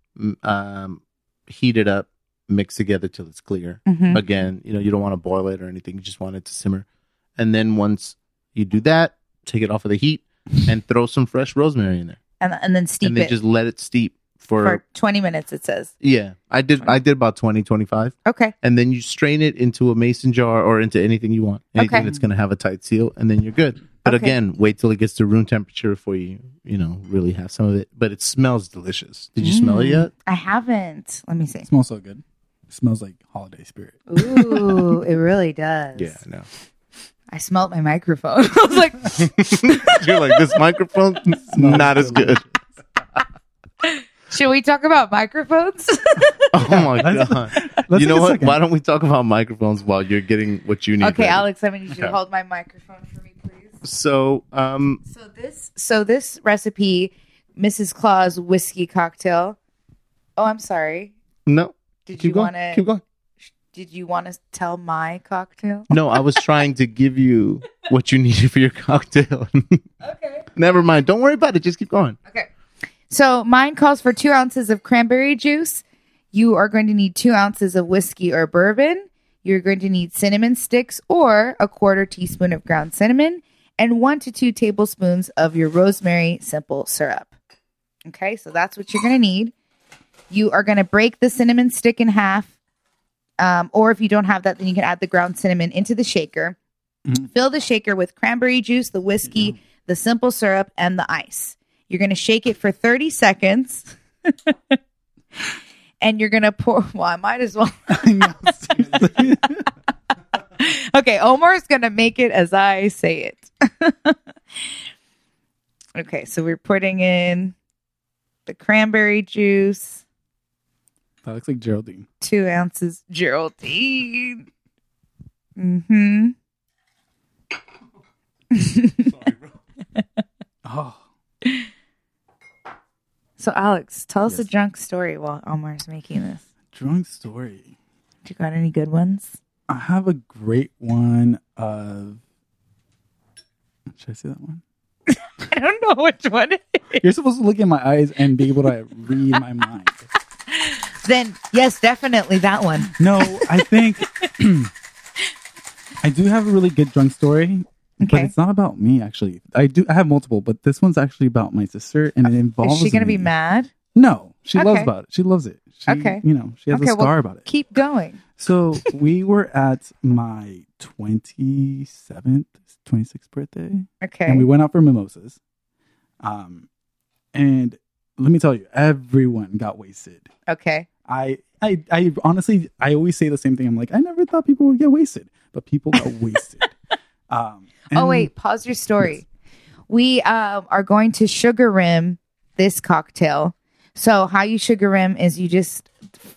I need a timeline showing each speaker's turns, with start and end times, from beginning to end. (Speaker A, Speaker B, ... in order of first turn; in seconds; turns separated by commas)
Speaker A: 0.1-6.8, Speaker B: 3.9-4.2, Speaker A: 7.4-12.2, Speaker B: 12.4-13.3, Speaker A: 13.0-14.8, Speaker B: 14.6-15.9, Speaker A: 16.0-30.1, Speaker B: 18.2-18.5, Speaker B: 21.8-22.1, Speaker C: 21.9-22.3, Speaker B: 24.1-24.4, Speaker B: 29.4-31.7, Speaker C: 31.6-35.0, Speaker B: 34.1-36.2, Speaker A: 36.0-36.5, Speaker B: 37.3-40.3, Speaker A: 39.2-42.4, Speaker C: 41.5-42.6, Speaker B: 43.8-46.8, Speaker A: 46.5-51.4, Speaker C: 46.6-48.6, Speaker B: 51.0-53.8, Speaker A: 53.8-55.0, Speaker B: 55.1-59.6, Speaker B: 60.4-61.1, Speaker A: 61.5-63.0, Speaker B: 62.1-62.8, Speaker B: 63.7-66.4, Speaker A: 65.9-69.8, Speaker B: 70.0-70.5, Speaker A: 70.6-72.2, Speaker B: 73.1-87.3, Speaker B: 88.1-89.5, Speaker B: 90.3-92.5, Speaker B: 93.4-96.6, Speaker B: 97.2-104.8, Speaker B: 106.0-109.4, Speaker C: 107.9-109.6, Speaker B: 110.6-114.2, Speaker B: 115.9-117.5, Speaker B: 118.5-120.0, Speaker C: 121.2-122.1, Speaker B: 122.2-124.4, Speaker B: 125.6-126.3, Speaker B: 128.5-129.1, Speaker C: 130.6-131.0, Speaker B: 133.4-136.4, Speaker C: 136.7-137.7, Speaker B: 138.2-139.4, Speaker C: 139.7-142.2, Speaker C: 143.9-144.6, Speaker B: 145.1-147.0, Speaker C: 147.0-150.1, Speaker B: 150.5-153.6, Speaker C: 152.9-154.7, Speaker C: 156.0-163.3, Speaker B: 158.0-158.3, Speaker B: 162.6-163.7, Speaker C: 163.9-167.4, Speaker B: 164.6-164.9, Speaker B: 165.9-168.2, Speaker C: 168.4-175.4, Speaker B: 174.0-174.4, Speaker C: 176.2-176.7, Speaker C: 177.3-180.3, Speaker B: 180.5-180.9, Speaker C: 181.1-186.7, Speaker C: 187.3-188.3, Speaker B: 187.9-189.2, Speaker B: 189.9-195.9